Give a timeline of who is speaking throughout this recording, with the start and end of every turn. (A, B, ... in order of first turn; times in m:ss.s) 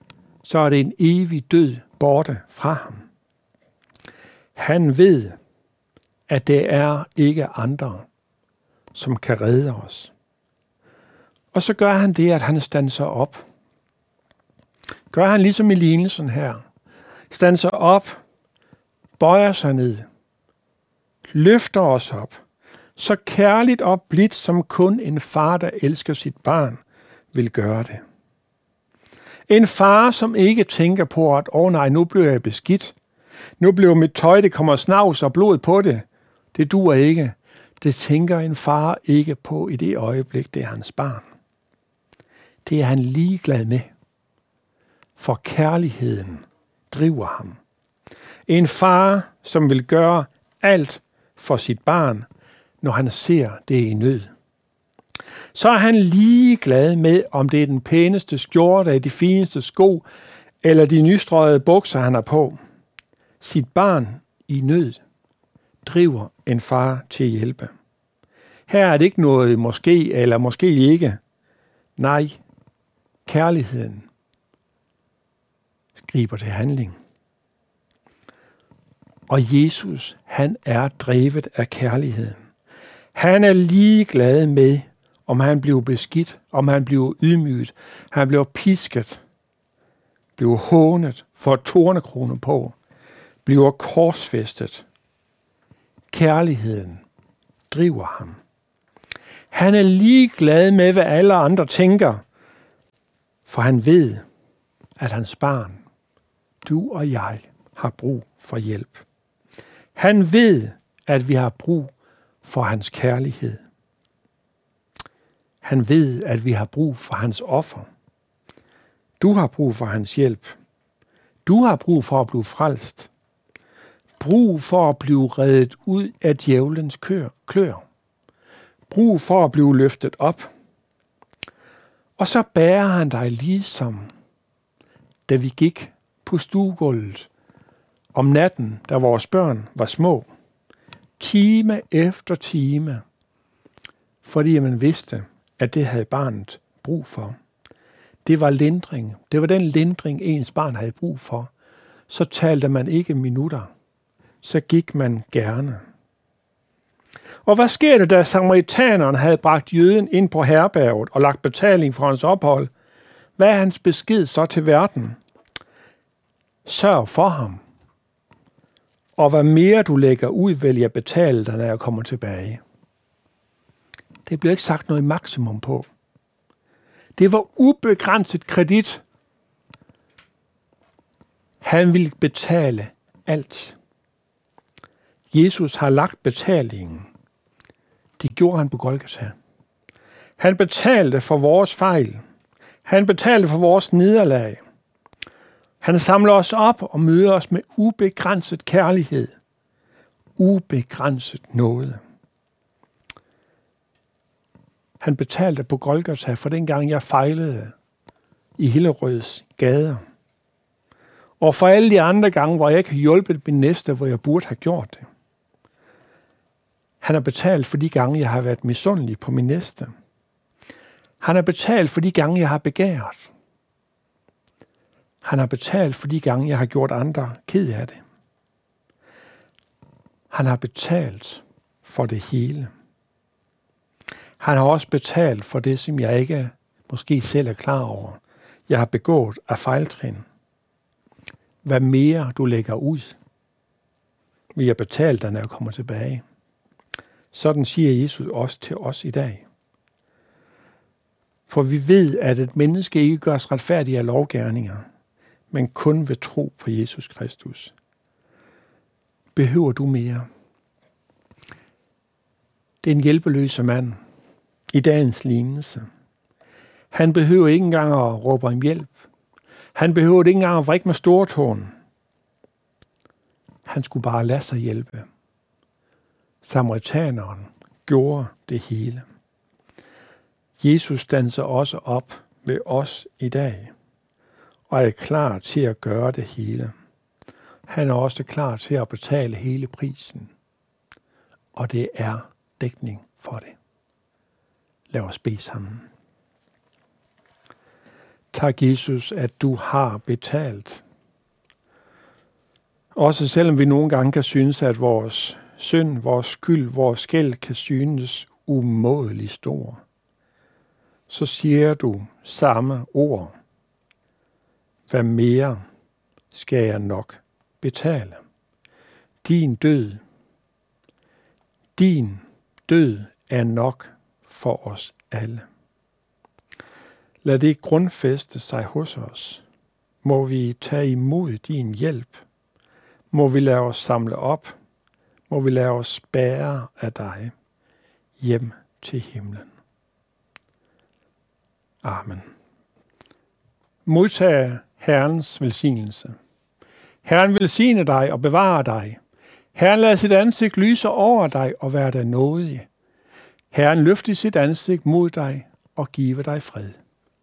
0:00.4-0:03.1 A
0:04.6-0:05.4 A
0:06.3-0:08.1 A
0:08.9-0:10.1 A
0:11.5-0:13.4 A
0:15.1-0:16.6 A
0:17.3-0:18.2 A
0:19.2-0:20.1 A
0:21.3-0:22.4 A
0:23.0-0:26.8 A
0:27.3-0:28.0 A
0:29.5-0:33.0 A
0:33.6-0:41.2 A
0:42.6-0:43.9 A
0:45.2-0:47.6 A
0:48.5-0:52.3 A
0:52.8-0:54.3 A
0:55.5-1:00.0 A
1:00.6-1:02.6 A
1:03.4-1:05.0 A
1:05.8-1:07.7 A
1:08.7-1:11.2 A
1:12.0-1:12.4 A
1:13.3-1:14.1 A
1:16.0-1:17.0 A
1:19.3-1:22.4 A
1:23.2-1:29.2 A
1:30.4-1:32.8 A
1:33.4-1:34.9 A
1:36.1-1:37.0 A
1:37.7-1:38.4 A
1:39.5-1:42.2 A
1:43.5-1:44.2 A
1:45.0-1:45.8 A
1:46.6-1:49.0 A
1:50.0-1:51.9 A
1:52.4-1:53.6 A
1:55.6-1:57.9 A
1:59.2-2:00.6 A
2:01.5-2:03.1 A
2:04.2-2:07.8 A
2:08.9-2:10.5 A
2:12.2-2:14.1 A
2:15.3-2:17.3 A
2:18.2-2:20.3 A
2:21.2-2:23.0 A
2:24.2-2:27.4 A
2:28.2-2:31.5 A
2:32.1-2:33.7 A
2:34.4-2:35.8 A
2:37.4-2:42.7 A
2:43.4-2:45.2 A
2:46.6-2:47.6 A
2:49.2-2:52.6 A
2:54.3-2:55.9 A
2:57.2-2:59.0 A
3:01.6-3:03.8 A
3:05.3-3:07.1 A
3:08.2-3:09.4 A
3:10.4-3:12.2 A
3:12.8-3:14.6 A
3:15.8-3:19.3 A
3:20.4-3:22.0 A
3:25.0-3:27.8 A
3:28.6-3:30.0 A
3:31.4-3:35.1 A
3:37.0-3:39.9 A
3:41.2-3:43.3 A
3:45.2-3:48.0 A
3:50.3-3:52.7 A
3:54.4-4:00.2 A
4:01.6-4:03.2 A
4:04.6-4:06.2 A
4:07.3-4:09.4 A
4:11.5-4:14.8 A
4:15.5-4:17.7 A
4:19.4-4:20.3 A
4:22.8-4:24.0 A
4:24.7-4:25.9 A
4:26.9-4:28.9 A
4:29.8-4:31.7 A
4:33.7-4:35.1 A
4:36.4-4:39.0 A
4:40.6-4:43.7 A
4:44.7-4:46.7 A
4:47.7-4:50.3 A
4:51.6-4:53.6 A
4:54.9-4:55.8 A
4:58.3-5:00.8 A
5:03.0-5:09.8 A
5:11.1-5:13.3 A
5:14.9-5:15.6 A
5:16.3-5:18.2 A
5:19.2-5:20.0 A
5:21.8-5:25.5 A
5:27.2-5:29.4 A
5:30.0-5:32.2 A
5:33.1-5:34.5 A
5:35.3-5:37.3 A
5:38.2-5:39.5 A
5:41.8-5:42.2 A
5:43.9-5:46.2 A
5:47.0-5:49.0 A
5:49.6-5:52.7 A
5:53.5-5:56.8 A